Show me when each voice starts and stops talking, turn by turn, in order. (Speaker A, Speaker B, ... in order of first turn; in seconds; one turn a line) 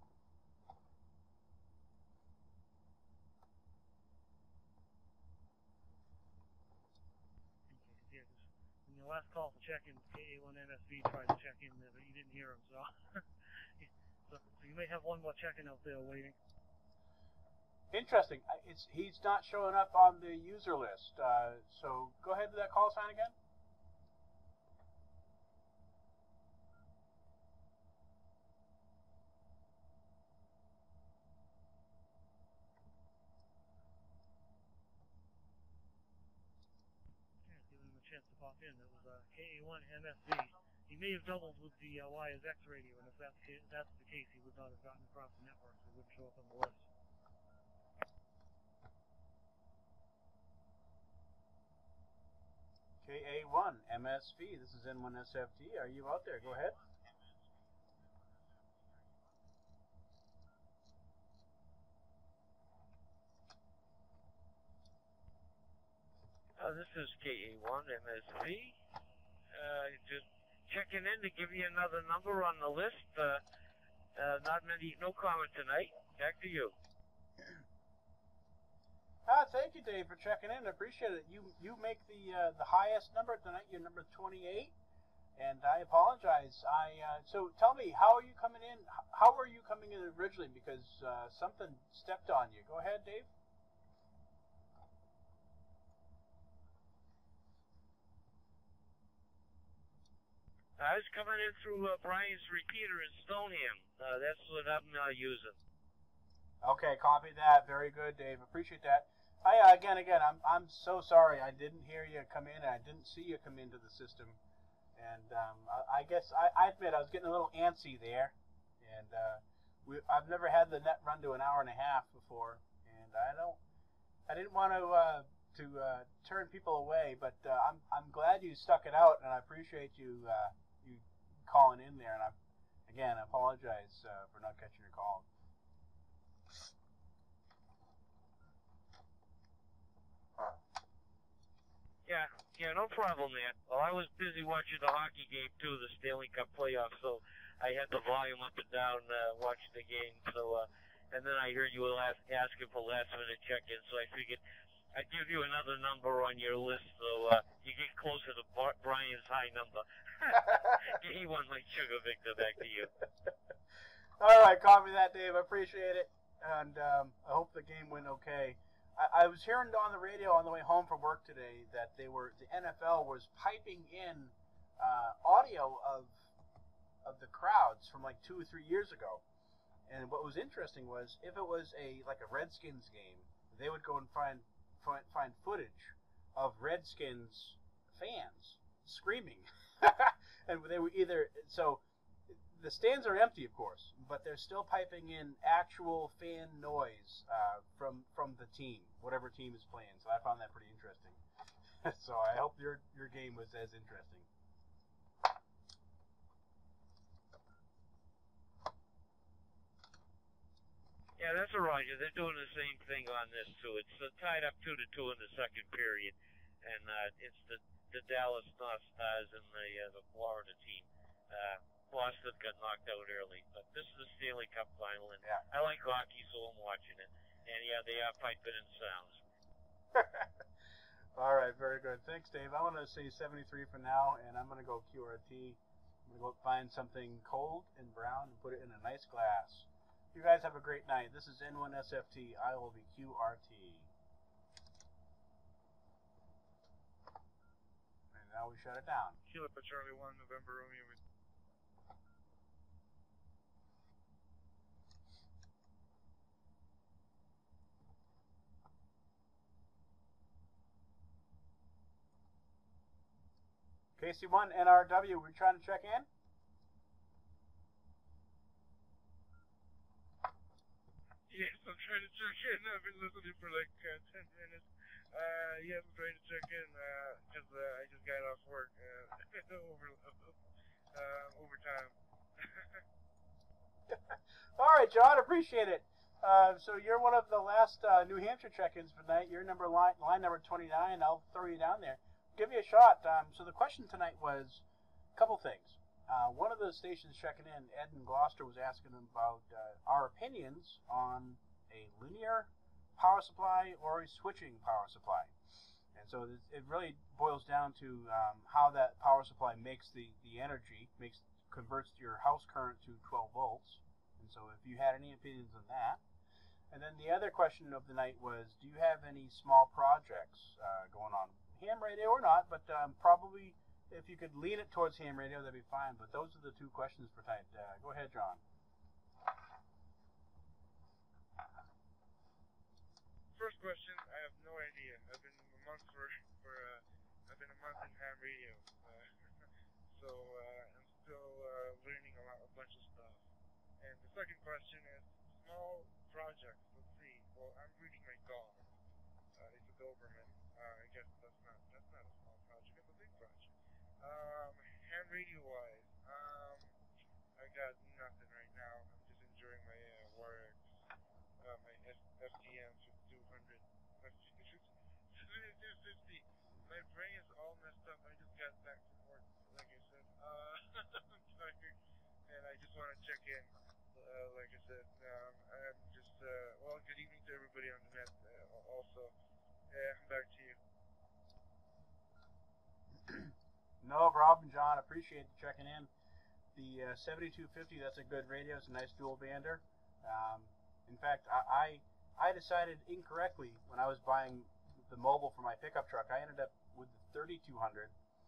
Speaker A: 7.7-13.2
Speaker A: 13.8-16.4
Speaker B: 17.9-23.3
Speaker A: 37.4-46.8
Speaker B: 53.0-56.8
Speaker C: 66.6-68.7
Speaker C: 69.6-73.4
Speaker C: 74.2-76.7
Speaker B: 79.2-84.7
Speaker B: 85.4-93.3
Speaker C: 100.8-105.5
Speaker B: 106.6-114.4
Speaker B: 115.0-123.6
Speaker B: 124.3-132.3
Speaker B: 132.9-135.3
Speaker C: 142.1-154.4
Speaker C: 154.9-159.8
Speaker C: 160.8-162.9
Speaker B: 164.2-176.2
Speaker B: 177.0-179.2
Speaker B: 179.9-201.2
Speaker B: 201.8-204.3
Speaker C: 211.2-229.2
Speaker B: 229.9-230.3
Speaker B: 231.2-243.9
Speaker B: 248.1-249.2
Speaker D: 249.2-251.0
Speaker B: 264.0-266.1
Speaker D: 271.3-280.4
Speaker D: 280.9-282.8
Speaker B: 283.9-294.6
Speaker B: 295.1-305.3
Speaker B: 305.9-316.0
Speaker B: 316.7-328.4
Speaker D: 333.3-339.1
Speaker D: 339.9-343.2
Speaker D: 343.8-348.7
Speaker D: 349.3-356.7
Speaker D: 357.4-360.6
Speaker D: 361.4-371.8
Speaker D: 372.3-379.1
Speaker D: 379.7-380.6
Speaker B: 383.8-385.9
Speaker B: 386.5-397.9